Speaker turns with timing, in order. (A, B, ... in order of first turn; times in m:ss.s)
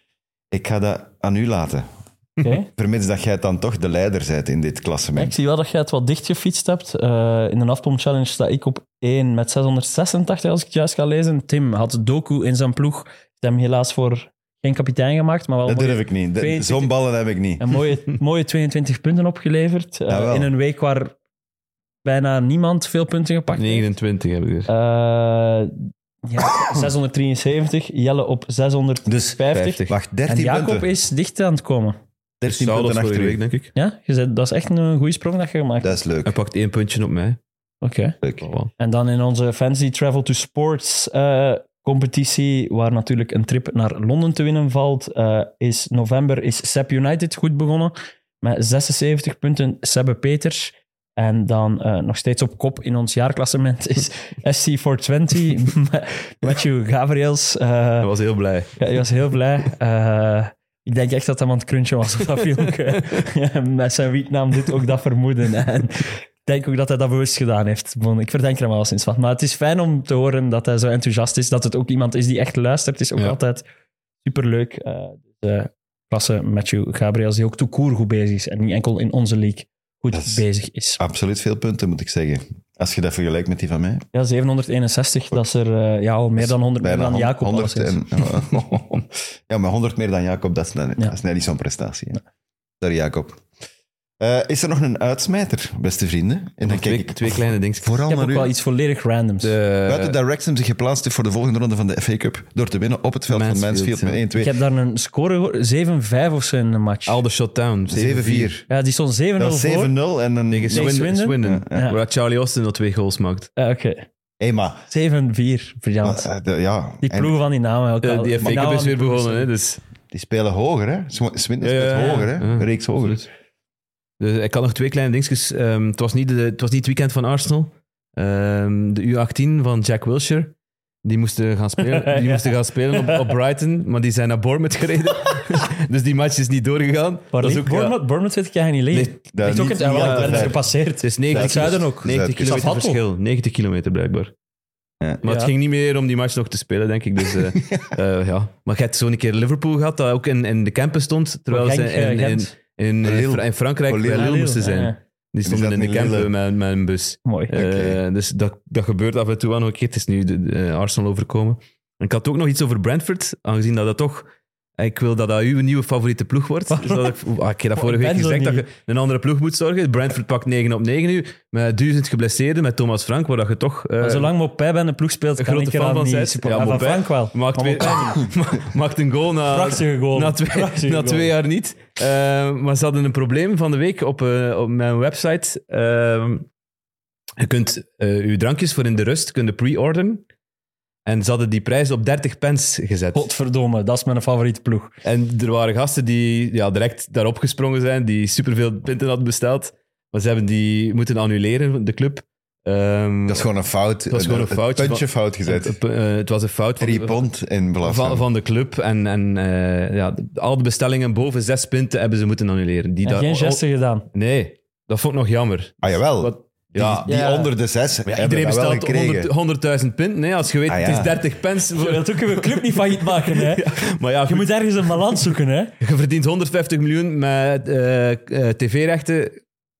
0:00.5-0:01.8 A
0:02.4-0:02.7 B
0:02.7-0:05.3 A
0:05.2-0:16.9 B
0:15.6-0:17.6 A
0:17.6-0:21.1 B
0:20.1-0:20.5 A
0:22.0-0:23.9 B
0:23.6-0:24.7 C
0:24.7-0:32.0 B
0:29.0-0:30.9 A
0:29.5-0:29.9 C
0:32.4-0:33.4 A
0:32.4-0:33.7 C
0:33.8-0:36.0 B
0:35.8-0:36.3 A
0:36.2-0:37.4 C
0:37.8-0:38.2 B
0:38.2-0:38.5 A
0:38.4-0:38.7 C
0:38.8-0:58.1 B
0:58.0-0:58.7 C
0:58.8-1:13.6 B
1:14.2-1:21.0 B
1:20.1-1:20.4 A
1:21.0-1:24.0 A
1:24.1-1:28.3 B
1:26.4-1:32.2 A
1:32.8-1:33.4 A
1:34.2-1:38.5 A
1:36.6-1:37.9 C
1:38.1-1:39.6 B
1:39.4-1:40.2 C
1:39.8-1:44.6 A
1:43.3-1:44.2 C
1:44.4-1:47.2 B
1:47.1-1:48.5 C
1:47.9-1:48.6 A
1:48.7-1:49.9 B
1:49.4-1:51.9 A
1:50.5-1:53.5 C
1:50.7-1:52.0 B
1:53.6-1:54.0 B
1:54.4-1:54.8 A
1:54.9-1:56.3 B
1:56.0-1:57.3 A
1:57.0-1:59.5 B
1:58.0-1:59.8 C
2:00.1-2:03.2 A
2:01.6-2:03.3 C
2:04.2-2:18.0 C
2:11.8-2:13.3 B
2:17.3-2:23.0 B
2:18.9-2:24.3 C
2:19.3-2:20.6 A
2:21.3-2:22.5 A
2:25.2-2:54.3 C
2:25.2-2:25.5 B
2:27.6-2:27.9 A
2:31.5-2:32.5 B
2:33.0-2:34.4 A
2:34.0-2:35.0 B
2:35.4-2:36.3 A
2:37.2-2:37.5 B
2:37.5-2:38.0 A
2:46.7-2:47.2 B
2:47.8-2:48.7 B
2:54.0-2:58.3 B
2:55.4-3:06.5 C
2:59.4-3:01.3 B
3:07.4-3:10.2 C
3:11.0-3:13.2 C
3:13.1-3:14.9 B
3:15.0-3:23.5 C
3:23.3-3:25.8 A
3:24.1-3:27.3 C
3:26.8-3:28.2 A
3:27.8-3:33.6 C
3:33.0-3:34.1 B
3:34.1-3:37.1 C
3:35.8-3:39.3 A
3:37.0-3:37.5 B
3:38.0-3:45.2 C
3:40.7-3:41.2 A
3:41.7-3:45.7 B
3:45.8-3:49.4 C